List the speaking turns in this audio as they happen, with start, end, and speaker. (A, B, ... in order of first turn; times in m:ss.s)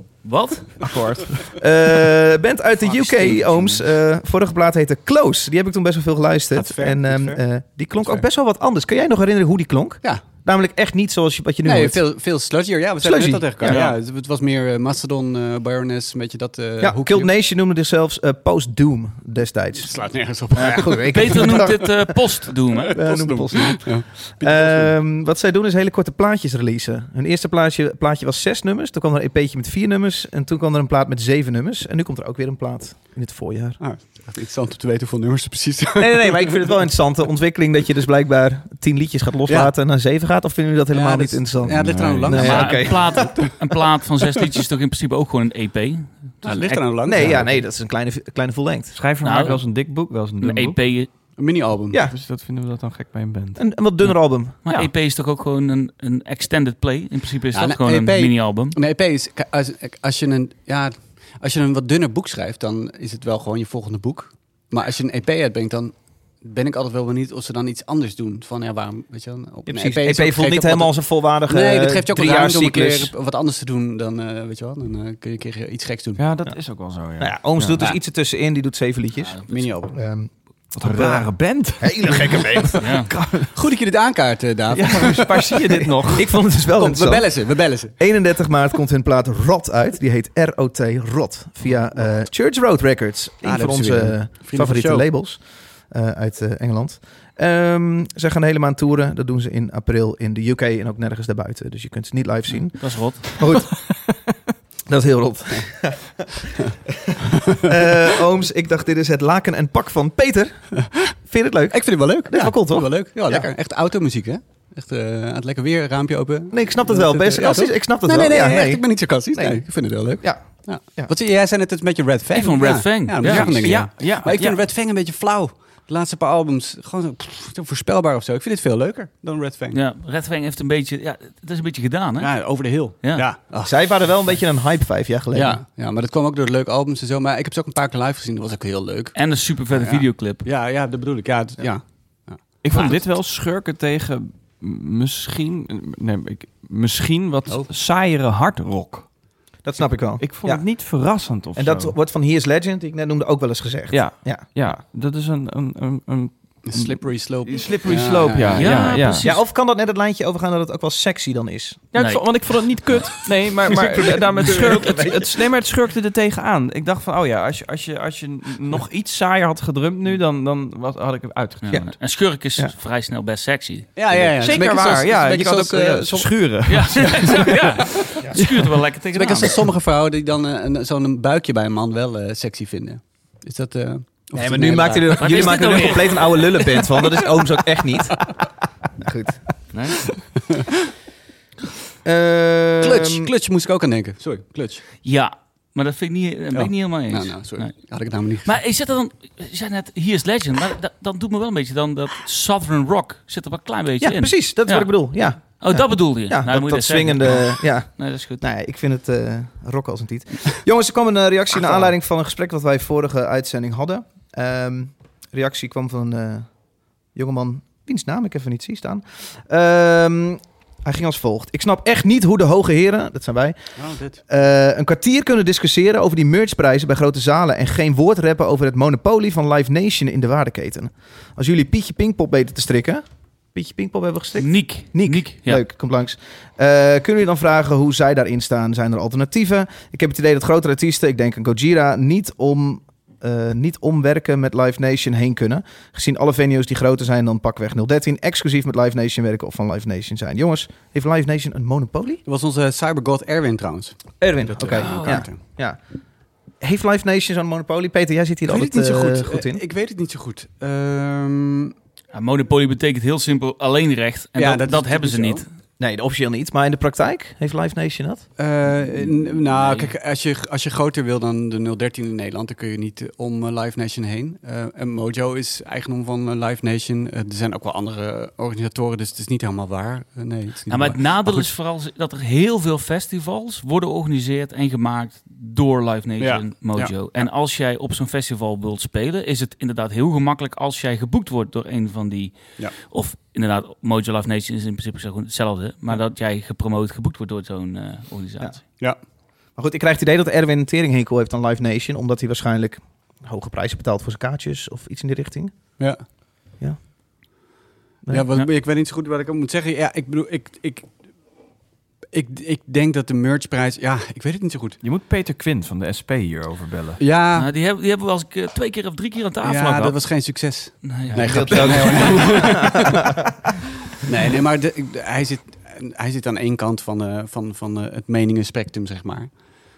0:00.2-0:00.7 A
0:00.8-0:01.5 B
0:01.6-0:12.0 C
0:02.8-0:03.8 D
0:06.5-0:07.4 D
0:11.6-0:17.3 D
0:13.0-0:13.8 C
0:13.6-0:14.0 A
0:16.8-0:19.9 C
0:19.8-0:21.9 D
0:20.6-0:23.0 A
0:20.6-0:22.1 C
0:22.9-0:33.8 C
0:23.0-0:24.9 D
0:33.8-0:36.7 D
0:36.0-0:43.5 C
0:39.5-0:39.7 D
0:40.9-0:43.3 D
0:41.6-0:42.7 B
0:42.4-0:46.8 A
0:46.4-0:47.6 D
0:47.0-0:49.0 C
0:48.9-0:50.8 B
0:49.2-0:49.6 A
0:50.4-0:51.1 A
0:51.4-0:52.0 D
0:52.0-0:53.6 B
0:53.6-0:54.6 C
0:54.6-0:58.8 A
0:57.5-1:16.2 D
1:09.7-1:13.1 C
1:16.2-1:17.8 B
1:17.2-1:21.3 C
1:19.4-1:20.0 D
1:20.7-1:23.5 B
1:21.8-1:22.8 C
1:22.8-1:23.1 A
1:23.5-1:25.6 D
1:24.7-1:26.3 B
1:26.1-1:43.9 C
1:26.8-1:28.0 D
1:33.4-1:35.1 D
1:42.8-1:43.3 A
1:44.9-1:46.2 C
1:47.3-1:53.5 C
1:50.8-1:51.1 D
1:51.7-2:09.8 D
1:56.5-2:01.1 C
2:02.3-2:03.8 A
2:03.2-2:04.6 B
2:09.7-2:13.2 A
2:12.2-2:13.7 D
2:13.6-2:15.6 C
2:15.3-2:19.2 D
2:19.1-2:20.4 A
2:19.7-2:22.9 D
2:22.6-2:29.1 B
2:29.6-2:30.7 C
2:30.2-2:31.9 B
2:31.5-2:34.4 C
2:33.9-2:39.3 B
2:36.6-2:39.0 D
2:38.6-2:39.4 A
2:39.2-2:41.9 C
2:41.9-2:51.9 B
2:42.0-2:42.2 A
2:44.0-2:45.3 C
2:51.6-2:54.3 A
2:51.7-2:52.0 C
2:54.0-2:57.4 D
2:54.3-2:58.7 B
2:56.7-2:59.5 A
2:59.1-3:06.0 D
3:04.4-3:08.4 C
3:05.2-3:06.3 A
3:09.0-3:09.4 C
3:12.0-3:13.3 C
3:12.8-3:14.8 D
3:15.0-3:17.9 A
3:16.5-3:18.6 D
3:18.4-3:28.4 A
3:24.0-3:36.6 C
3:37.1-3:43.6 C
3:43.8-3:44.2 D
3:44.3-4:12.2 C
3:54.4-3:55.6 A
4:12.2-4:15.4 D
4:14.2-4:15.8 C
4:14.8-4:15.2 A
4:16.6-4:19.6 C
4:18.4-4:21.7 D
4:22.1-4:25.5 A
4:24.4-4:25.4 D
4:25.8-4:28.2 C
4:28.4-4:41.5 D
4:29.6-4:29.9 A
4:40.7-4:58.6 A
4:46.2-4:47.0 D
4:59.6-5:05.8 C
5:08.1-5:10.9 D
5:12.1-5:14.8 D
5:14.8-5:17.0 B
5:17.0-5:17.5 D
5:17.3-5:20.0 A
5:19.4-5:23.1 D
5:20.8-5:22.5 A
5:21.2-5:23.3 C
5:24.0-5:29.3 D